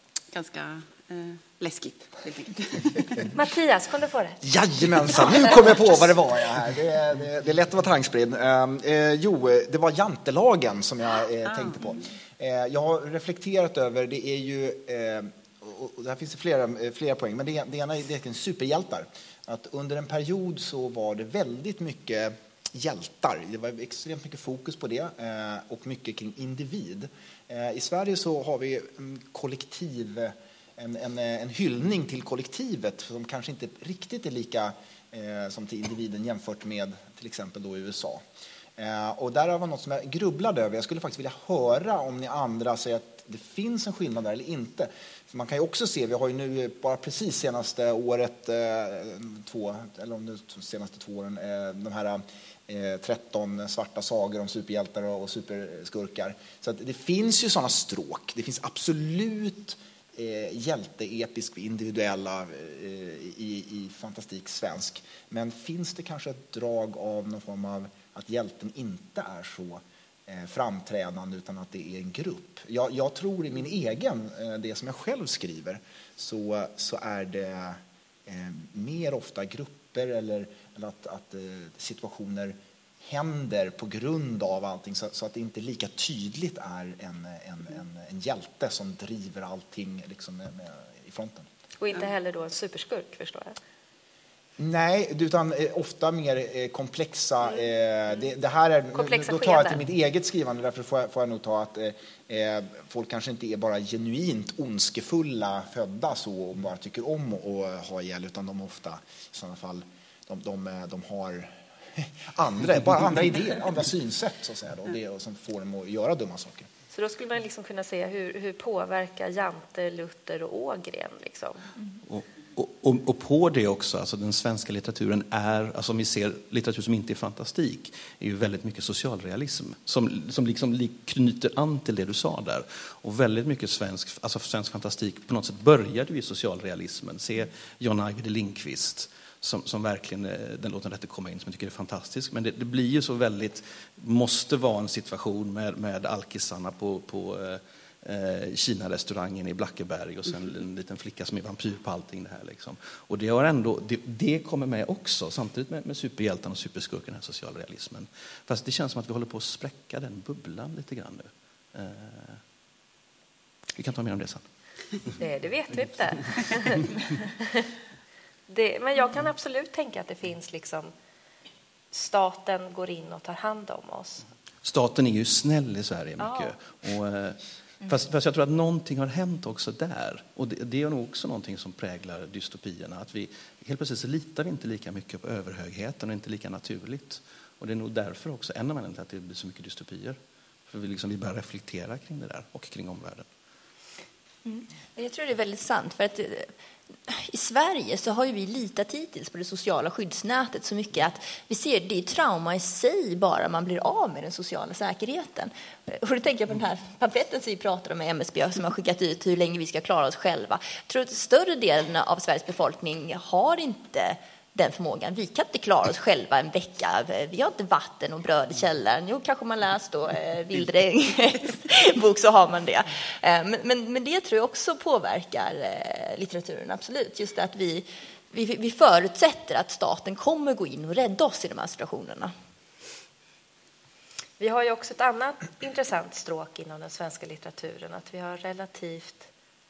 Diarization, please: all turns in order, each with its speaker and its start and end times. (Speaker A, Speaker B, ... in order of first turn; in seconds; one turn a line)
Speaker A: 0.3-3.3
Speaker B: 3.3-4.4
Speaker C: 4.4-38.2
Speaker A: 11.6-11.9
Speaker C: 38.8-91.5
Speaker B: 91.8-93.6
Speaker C: 94.6-116.7
Speaker B: 98.9-99.8
Speaker B: 116.9-121.6
Speaker D: 122.1-162.4
Speaker D: 163.8-164.4
Speaker B: 165.2-166.9
Speaker B: 168.5-170.9
Speaker B: 171.9-174.2
Speaker D: 174.6-190.2
Speaker B: 176.2-176.5
Speaker D: 190.7-193.3
Speaker E: 194.4-196.5
Speaker E: 197.1-232.3
Speaker B: 234.4-239.3